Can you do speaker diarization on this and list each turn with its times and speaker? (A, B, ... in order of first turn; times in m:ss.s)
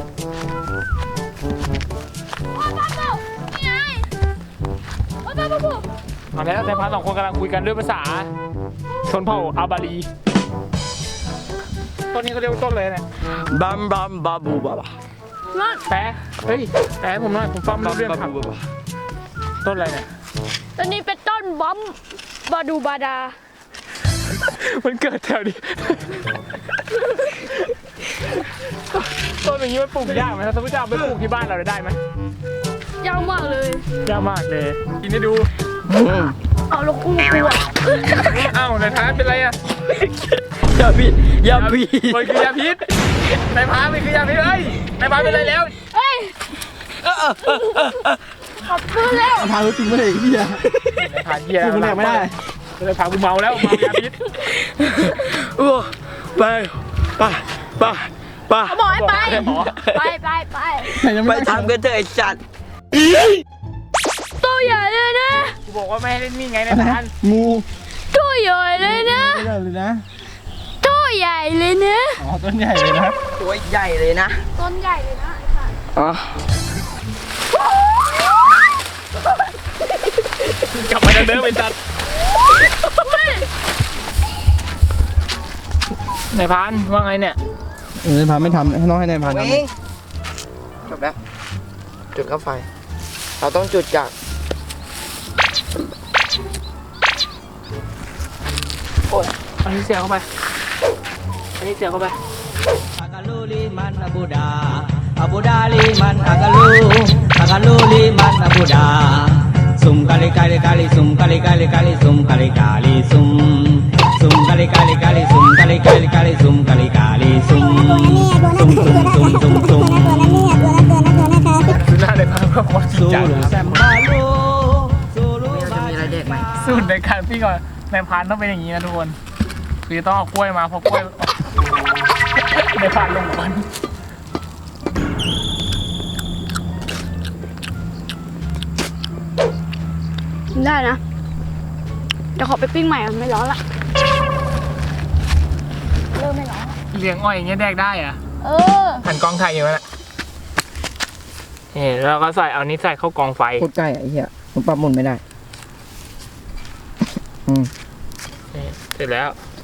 0:02.5-0:04.1 A
0:05.2-0:05.8 A
0:06.3-0:08.3 B
0:09.0-0:10.1 B
0:12.1-0:13.0 B
0:13.4-0:14.9 C
0:15.5-0:15.8 A
0:15.9-0:18.4 B
0:17.7-0:18.6 C
0:19.6-0:20.1 B
0:20.8-0:23.4 A
0:24.3-0:26.1 B
0:28.9-0:32.0 B
0:33.0-0:33.9 A
0:34.0-0:35.5 B
0:35.9-0:36.4 C
0:36.7-0:38.4 A
0:38.2-0:39.6 B
0:40.0-0:42.6 C
0:41.5-0:45.8 B
0:45.5-0:46.4 A
0:47.0-0:48.2 C
0:48.6-0:49.5 A
0:49.3-0:50.8 D
0:50.9-0:54.2 B
0:51.6-0:52.3 D
0:54.4-0:58.8 C
0:58.6-1:01.0 A
0:58.9-0:59.8 B
1:00.9-1:01.7 D
1:01.0-1:02.4 C
1:04.4-1:05.6 A
1:05.6-1:07.1 B
1:06.7-1:07.6 D
1:08.1-1:09.5 A
1:08.8-1:10.0 D
1:10.8-1:12.2 A
1:12.2-1:13.2 D
1:13.3-1:14.4 C
1:14.6-1:15.7 A
1:16.0-1:16.4 C
1:20.6-1:21.8 B
1:23.0-1:23.5 A
1:26.3-1:27.4 B
1:28.0-1:29.6 D
1:29.2-1:29.7 C
1:30.8-1:31.2 C
1:32.1-1:32.7 C
1:33.4-1:34.1 C
1:39.1-1:40.3 B
1:41.6-1:42.2 B
1:43.0-2:01.3 E
2:01.6-2:03.8 B
2:02.9-2:06.5 E
2:05.4-2:06.5 C
2:06.6-2:09.2 B
2:09.8-2:11.5 B
2:12.4-2:13.7 B
2:20.5-2:21.0 A
2:22.4-2:23.6 A
2:26.1-2:26.8 A
2:26.9-2:28.2 B
2:28.4-2:29.0 A
2:29.0-2:29.8 B
2:31.7-2:33.7 B
2:33.6-2:35.2 C
2:37.4-2:37.7 C
2:38.5-2:39.4 B